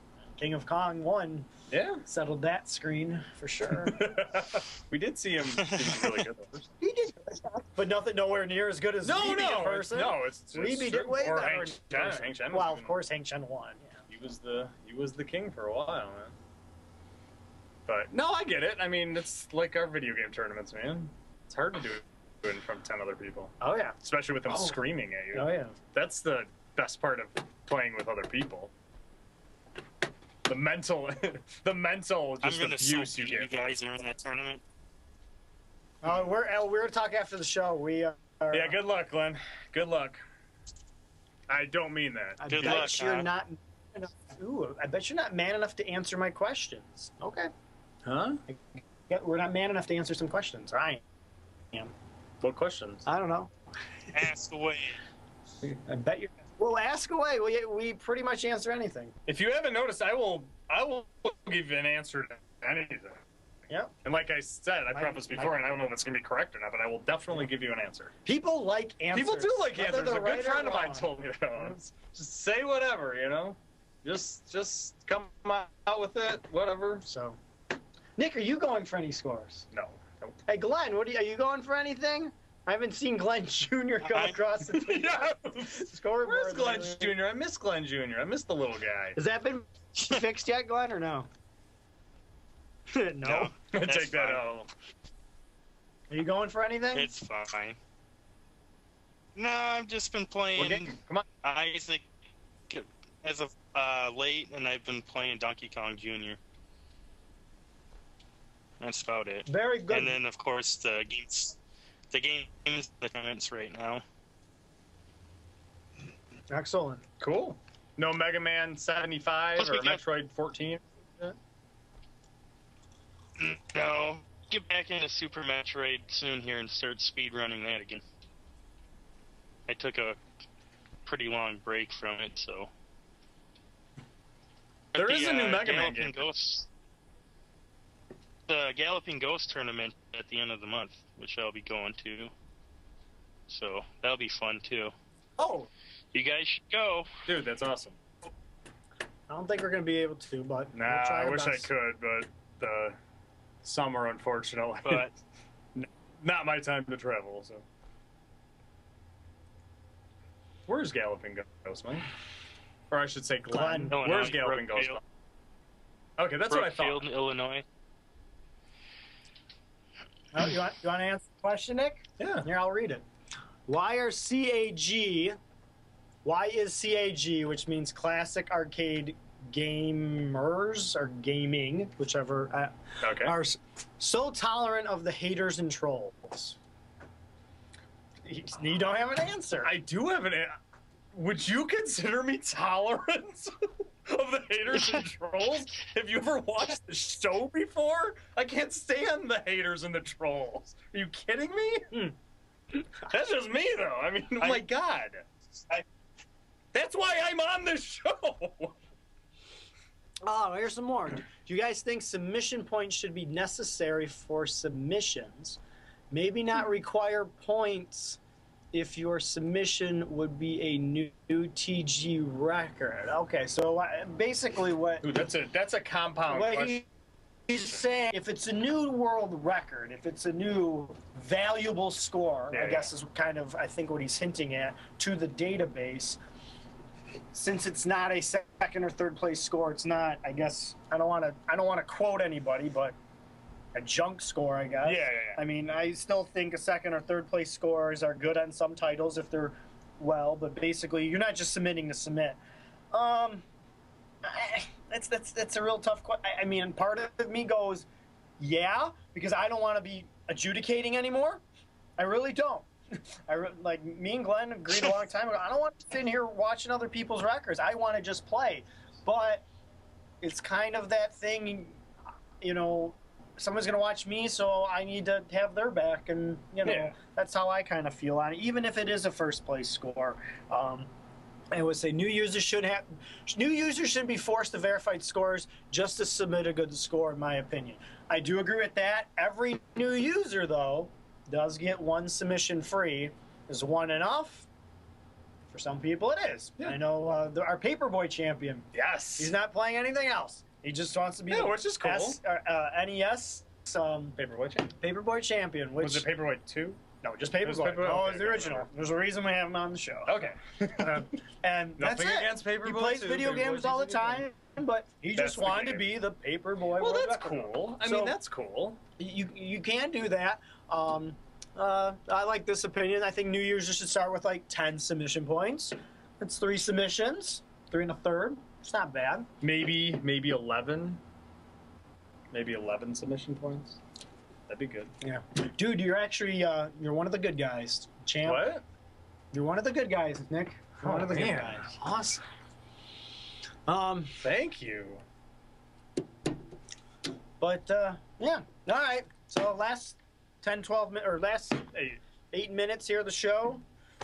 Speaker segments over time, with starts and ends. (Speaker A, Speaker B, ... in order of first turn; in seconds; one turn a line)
Speaker A: 0.4-1.5
Speaker B: 1.7-2.0
Speaker A: 2.1-4.1
Speaker B: 3.9-6.7
Speaker C: 5.6-6.2
Speaker A: 6.8-13.9
Speaker B: 9.0-12.9
Speaker B: 14.1-16.4
Speaker B: 17.9-28.7
Speaker A: 23.6-23.9
Speaker A: 24.5-24.7
Speaker A: 25.3-25.8
Speaker B: 30.5-33.5
Speaker C: 32.4-34.6
Speaker A: 36.0-38.8
Speaker B: 38.5-40.2
Speaker B: 41.5-42.9
Speaker A: 42.4-47.5
Speaker C: 42.5-43.3
Speaker B: 48.0-48.4
Speaker A: 48.5-51.0
Speaker B: 52.4-53.1
Speaker A: 53.1-53.5
Speaker C: 54.1-55.0
Speaker A: 55.7-59.1
Speaker B: 59.3-63.2
Speaker B: 64.0-68.1
Speaker A: 64.9-65.6
Speaker A: 68.3-71.1
Speaker B: 69.1-77.1
Speaker A: 77.0-77.4
Speaker A: 78.2-79.7
Speaker B: 79.7-80.4
Speaker A: 80.5-87.2
Speaker C: 84.1-84.4
Speaker B: 84.7-89.2
Speaker A: 89.2-91.3
Speaker A: 92.9-93.5
Speaker C: 93.2-94.4
Speaker B: 93.7-94.7
Speaker A: 96.1-97.1
Speaker C: 96.9-97.8
Speaker C: 99.3-100.9
Speaker B: 100.6-101.2
Speaker C: 101.4-102.1
Speaker C: 102.7-106.4
Speaker C: 108.8-111.6
Speaker A: 109.5-110.2
Speaker C: 112.1-114.0
Speaker A: 116.5-117.0
Speaker B: 117.2-121.3
Speaker C: 119.6-120.0
Speaker C: 123.4-128.0
Speaker C: 129.7-130.2
Speaker C: 131.1-132.7
Speaker C: 134.9-136.7
Speaker B: 134.9-136.2
Speaker C: 138.5-142.3
Speaker C: 143.5-144.9
Speaker B: 145.4-145.7
Speaker C: 146.1-147.1
Speaker B: 147.3-148.0
Speaker A: 149.3-151.7
Speaker B: 150.7-153.0
Speaker B: 153.6-155.1
Speaker C: 154.8-155.1
Speaker B: 155.8-157.6
Speaker B: 160.7-162.1
Speaker B: 162.9-165.0
Speaker A: 163.5-164.0
Speaker C: 163.9-165.0
Speaker B: 166.2-167.0
Speaker C: 166.5-167.7
Speaker A: 170.3-173.0
Speaker B: 172.2-172.5
Speaker A: 173.7-175.4
Speaker A: 176.2-186.6
Speaker B: 183.0-183.4
Speaker A: 188.2-189.7
Speaker B: 189.6-190.6
Speaker B: 191.1-201.9
Speaker B: 203.1-205.2
Speaker B: 206.7-208.8
Speaker A: 210.2-215.6
Speaker A: 216.1-218.2
Speaker A: 218.7-225.1
Speaker B: 225.0-226.8
Speaker A: 226.3-226.8
Speaker A: 227.5-236.2
Speaker B: 232.5-232.9
Speaker A: 237.3-242.9
Speaker A: 243.7-252.4
Speaker B: 244.8-245.4
Speaker A: 252.9-253.4
Speaker A: 254.2-257.9
Speaker A: 258.4-261.4
Speaker A: 262.0-262.7
Speaker A: 263.3-269.4
Speaker A: 270.2-271.8
Speaker A: 272.4-280.9
Speaker B: 276.6-276.9
Speaker A: 281.5-294.5
Speaker A: 295.5-298.7
Speaker B: 298.7-299.3
Speaker A: 299.2-304.2
Speaker B: 301.3-302.2
Speaker B: 304.2-304.7
Speaker A: 304.8-306.1
Speaker B: 305.8-306.8
Speaker A: 307.0-310.2
Speaker B: 307.4-308.7
Speaker B: 310.1-311.1
Speaker A: 310.8-318.1
Speaker B: 311.8-314.3
Speaker B: 315.2-315.9
Speaker B: 316.8-318.8
Speaker A: 319.0-329.3
Speaker B: 329.4-331.0
Speaker B: 332.3-333.8
Speaker B: 334.5-334.9
Speaker A: 335.0-338.5
Speaker B: 338.2-338.6
Speaker A: 339.3-341.7
Speaker B: 340.8-342.2
Speaker A: 343.7-344.2
Speaker B: 344.2-345.0
Speaker A: 347.4-351.7
Speaker B: 351.7-352.0
Speaker A: 352.3-353.6